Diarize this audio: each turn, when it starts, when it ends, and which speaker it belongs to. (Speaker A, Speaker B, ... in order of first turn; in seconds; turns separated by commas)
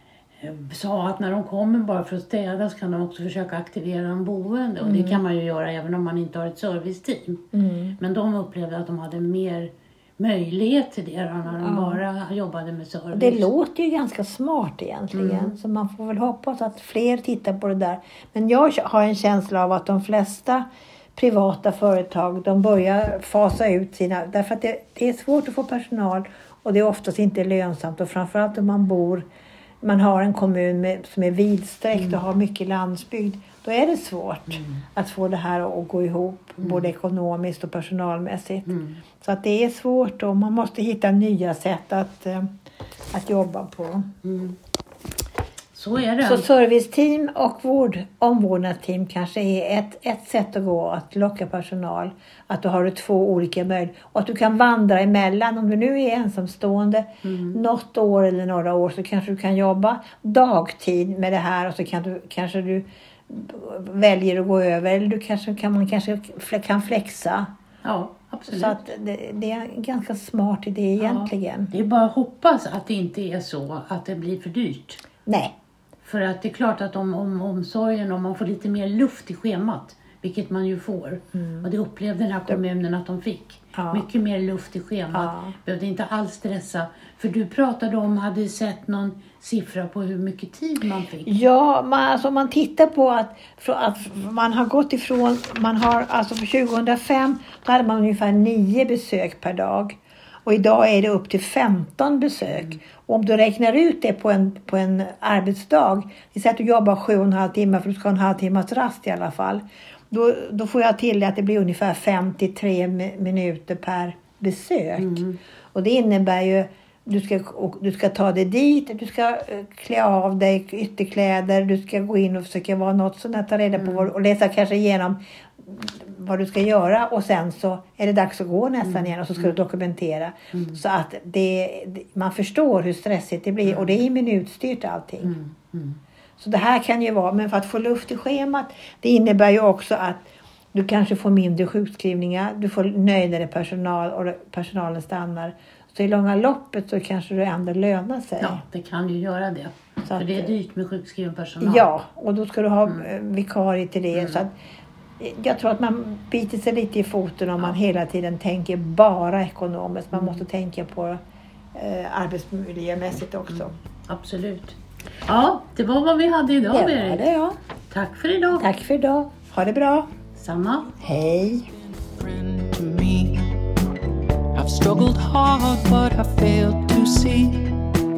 Speaker A: 0.4-7.5, Speaker B: 4.8-5.2, Speaker B: 7.5-8.0, Speaker A: 8.0-13.5, Speaker B: 11.6-12.0, Speaker B: 13.1-29.2, Speaker A: 15.1-15.6, Speaker B: 29.8-38.7, Speaker A: 34.5-34.8, Speaker A: 36.6-36.9, Speaker A: 38.7-39.0, Speaker B: 39.2-42.5, Speaker B: 43.1-44.1, Speaker A: 44.2-44.6, Speaker A: 45.7-46.5, Speaker B: 46.2-67.5, Speaker A: 57.2-57.6, Speaker A: 67.8-68.8, Speaker B: 68.5-71.7, Speaker A: 71.0-75.0, Speaker B: 75.2-75.5, Speaker A: 76.0-91.3, Speaker B: 81.3-81.7, Speaker B: 83.8-84.1, Speaker B: 85.1-85.5, Speaker B: 91.3-115.2, Speaker A: 115.0-115.4, Speaker B: 115.7-135.3, Speaker A: 123.8-124.1, Speaker A: 128.8-129.5, Speaker A: 130.5-130.8, Speaker A: 133.6-134.0, Speaker A: 135.2-136.0, Speaker B: 136.4-148.6, Speaker A: 148.4-151.9, Speaker B: 150.1-150.5, Speaker B: 151.6-154.5, Speaker A: 154.1-154.4, Speaker B: 155.2-161.2, Speaker A: 160.1-160.4, Speaker B: 161.7-163.7, Speaker A: 163.5-167.3, Speaker B: 166.7-167.6, Speaker A: 167.9-168.7, Speaker B: 168.6-170.1, Speaker A: 170.3-170.9, Speaker B: 171.0-171.7, Speaker C: 171.4-173.5, Speaker C: 174.5-177.8